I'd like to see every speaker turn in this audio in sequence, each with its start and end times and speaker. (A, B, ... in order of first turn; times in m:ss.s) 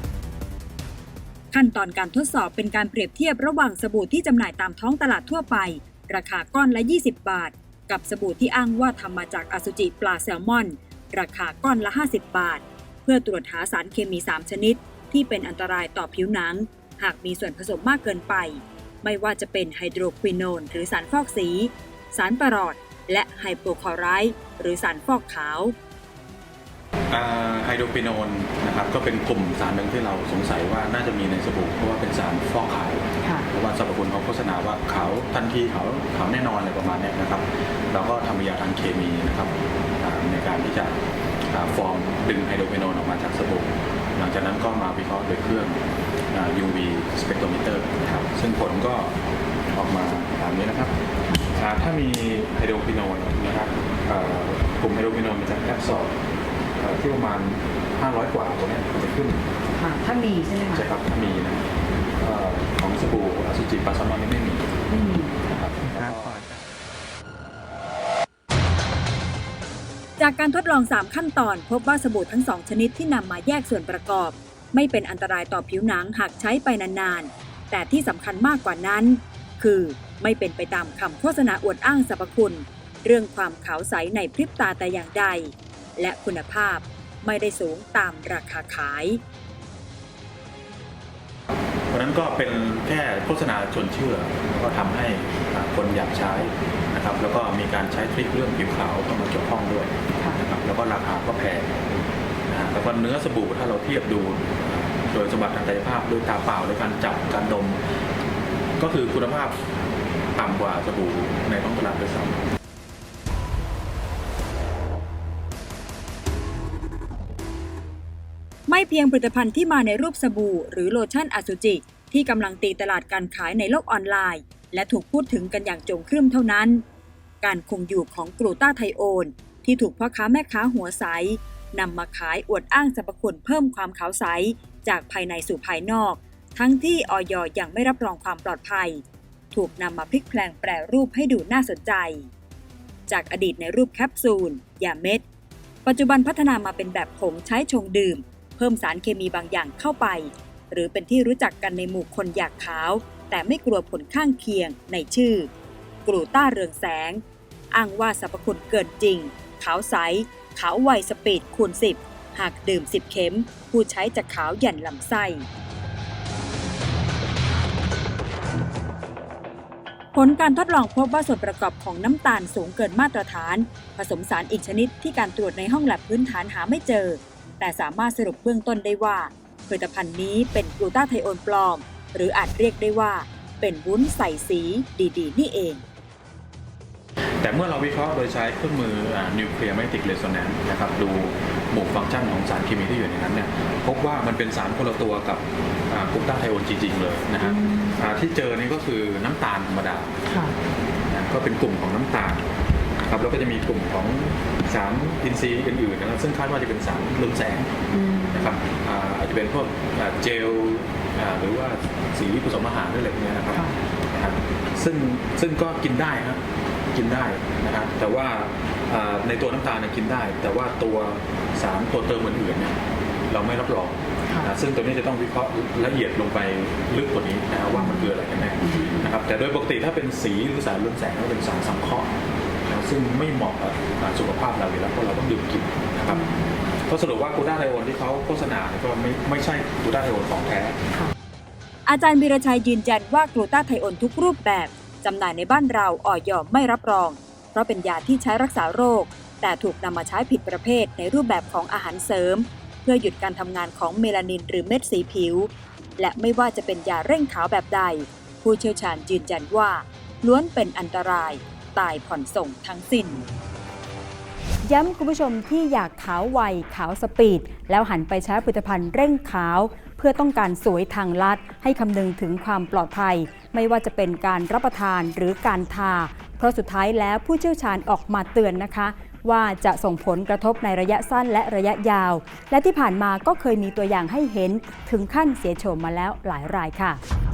0:01.5-0:25.7 A
0:27.1-0:41.0 B
0:41.5-0:45.8 B
0:46.3-0:49.1 B
0:49.7-0:56.1 B
0:56.8-0:59.4 B
0:59.8-1:00.9 C
1:00.6-1:01.6 B
1:02.2-1:04.7 B
1:04.9-1:05.3 C
1:05.5-1:06.5 B
1:10.3-1:25.4 A
1:26.0-1:29.1 A
1:31.9-1:41.7 B
1:42.5-1:47.8 B
1:48.8-1:49.6 B
1:50.3-1:52.4 B
1:58.7-2:06.8 A
2:07.4-2:19.0 A
2:19.5-2:22.2 A
2:23.1-2:25.2 A
2:25.8-2:35.4 A
2:36.0-2:37.2 A
2:37.7-2:45.4 A
2:50.1-3:05.8 A
3:07.4-3:20.1 B
3:17.4-3:17.9 C
3:20.3-3:20.5 C
3:21.1-3:22.4 B
3:23.0-3:27.7 B
3:27.9-3:28.5 C
3:28.3-3:36.4 B
3:36.9-3:52.1 B
3:47.7-3:48.1 C
3:48.6-3:49.1 C
3:52.6-3:56.3 B
3:56.1-3:56.5 C
3:56.8-4:00.8 B
4:01.9-4:23.2 A
4:24.6-4:47.0 D